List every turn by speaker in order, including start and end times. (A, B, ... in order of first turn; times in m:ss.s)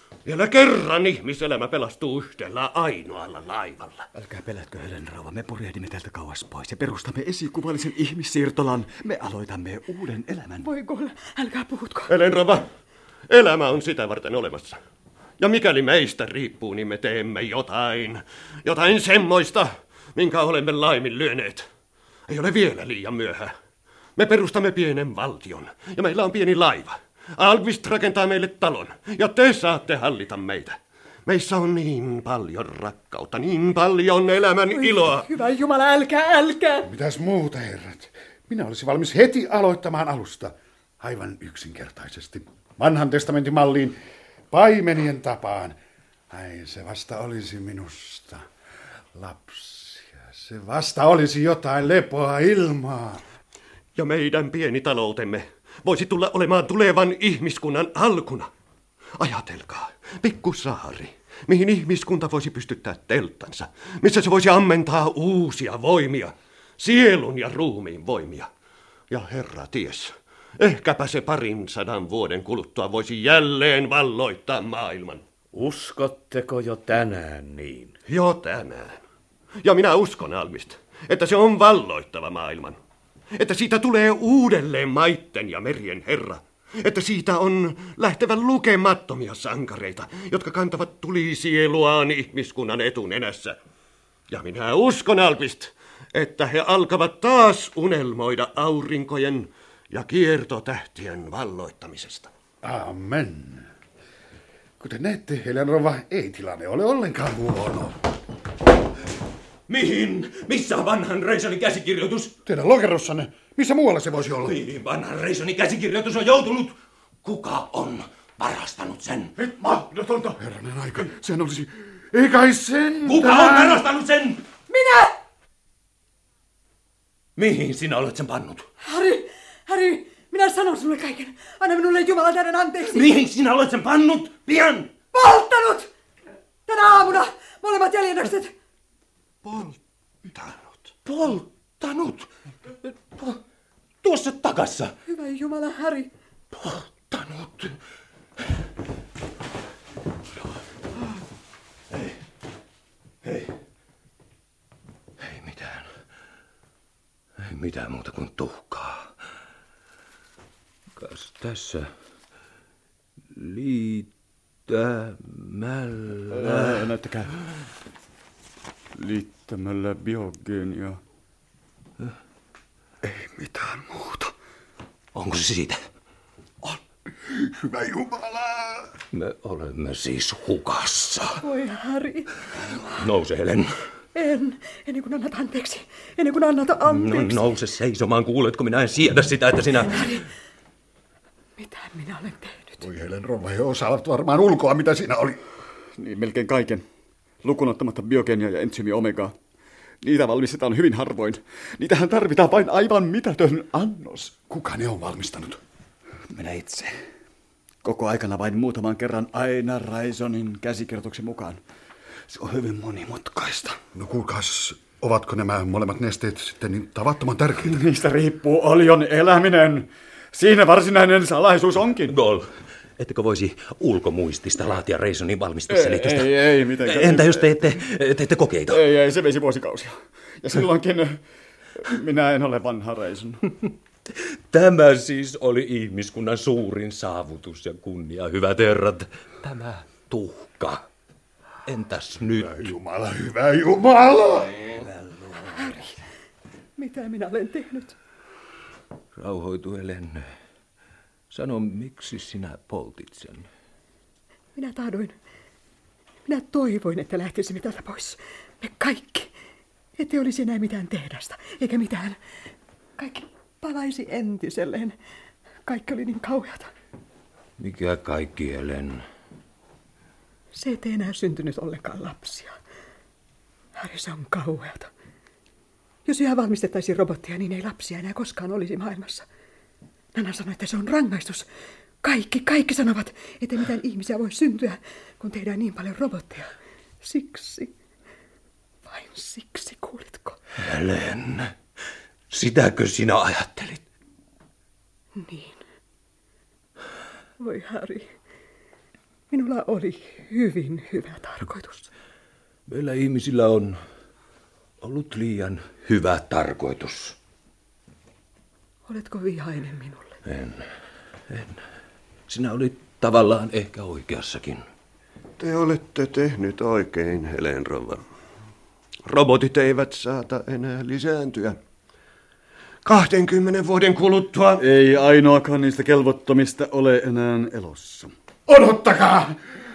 0:00.2-0:04.0 A
0:04.1-0:10.6 B
0:10.6-0:12.1 C
0:12.1-0:12.6 A
0:13.3-0:14.8 A
0:15.4-0:21.7 A
0:22.3-0:23.5 A
0:24.2-0:35.3 A
0:34.7-0:36.9 C
0:36.9-0:44.0 D
0:44.5-0:45.8 D
0:46.3-0:48.4 D
0:49.1-0:53.2 D
0:53.9-0:58.5 A
0:59.2-1:08.5 A
1:09.1-1:15.2 A
1:15.5-1:17.9 E
1:18.1-1:19.0 A
1:19.6-1:22.8 A
1:23.4-1:33.6 A
1:34.3-1:42.3 A
1:42.6-1:43.7 D
1:44.8-1:48.0 D
1:49.7-1:52.3 F
1:52.4-1:54.6 D
1:54.4-1:59.4 F
1:59.4-2:00.4 B
2:00.4-2:03.8 D
2:03.0-2:04.4 F
2:04.7-2:05.1 C
2:07.4-2:08.6 F
2:08.8-2:13.1 C
2:12.9-2:14.9 F
2:15.1-2:15.9 C
2:16.6-2:18.5 C
2:19.4-2:19.8 A
2:20.3-2:20.9 A
2:21.1-2:22.3 F
2:22.8-2:23.4 F
2:24.0-2:24.9 F
2:25.1-2:26.1 C
2:26.5-2:27.8 F
2:33.2-2:33.5 F
2:35.2-2:35.9 F
2:37.4-2:39.1 F
2:41.0-2:41.9 F
2:43.4-2:44.1 F
2:44.7-2:46.9 F
2:46.3-2:47.3 B
2:48.9-2:51.0 B
2:53.0-2:54.3 B
2:55.1-2:55.8 F
2:57.4-2:58.8 D
2:59.1-3:01.4 F
3:01.4-3:02.3 C
3:02.9-3:03.7 F
3:04.1-3:07.4 C
3:06.9-3:10.2 F
3:10.0-3:10.2 C
3:11.6-3:12.8 C
3:12.8-3:15.4 D
3:16.0-3:16.8 B
3:17.4-3:19.4 B
3:20.0-3:24.4 B
3:24.5-3:25.6 D
3:26.3-3:27.0 B
3:27.8-3:31.6 B
3:32.3-3:33.8 B
3:34.0-3:37.8 D
3:37.6-3:42.2 B
3:42.1-3:48.8 F
3:45.7-3:47.8 B
3:48.7-3:51.2 B
3:51.8-3:53.4 B
3:54.5-4:00.9 F
4:01.6-4:02.7 F
4:02.4-4:04.6 D
4:04.6-4:05.7 F
4:05.4-4:06.0 C
4:06.8-4:07.9 C
4:09.1-4:10.2 F
4:11.3-4:13.5 F
4:14.6-4:15.1 C
4:16.3-4:19.3 C
4:20.0-4:22.2 C
4:23.0-4:24.9 C
4:25.6-4:26.7 C
4:27.6-4:29.0 F
4:30.5-4:32.6 C
4:33.8-4:34.9 C
4:36.1-4:39.2 C
4:40.1-4:41.4 C
4:42.0-4:46.5 C
4:47.0-4:47.7 C
4:48.9-4:50.4 C
4:50.6-4:51.5 F
4:52.3-4:53.8 F
4:55.2-4:55.6 C
4:57.4-4:58.1 C
4:59.3-5:01.9 C
5:02.7-5:03.8 F
5:04.8-5:07.2 F
5:08.9-5:10.1 C
5:10.3-5:10.7 F
5:11.3-5:11.6 F
5:12.3-5:14.6 F
5:15.4-5:18.0 A
5:19.1-5:21.6 A
5:22.8-5:24.6 A
5:24.6-5:28.1 B
5:28.5-5:29.4 D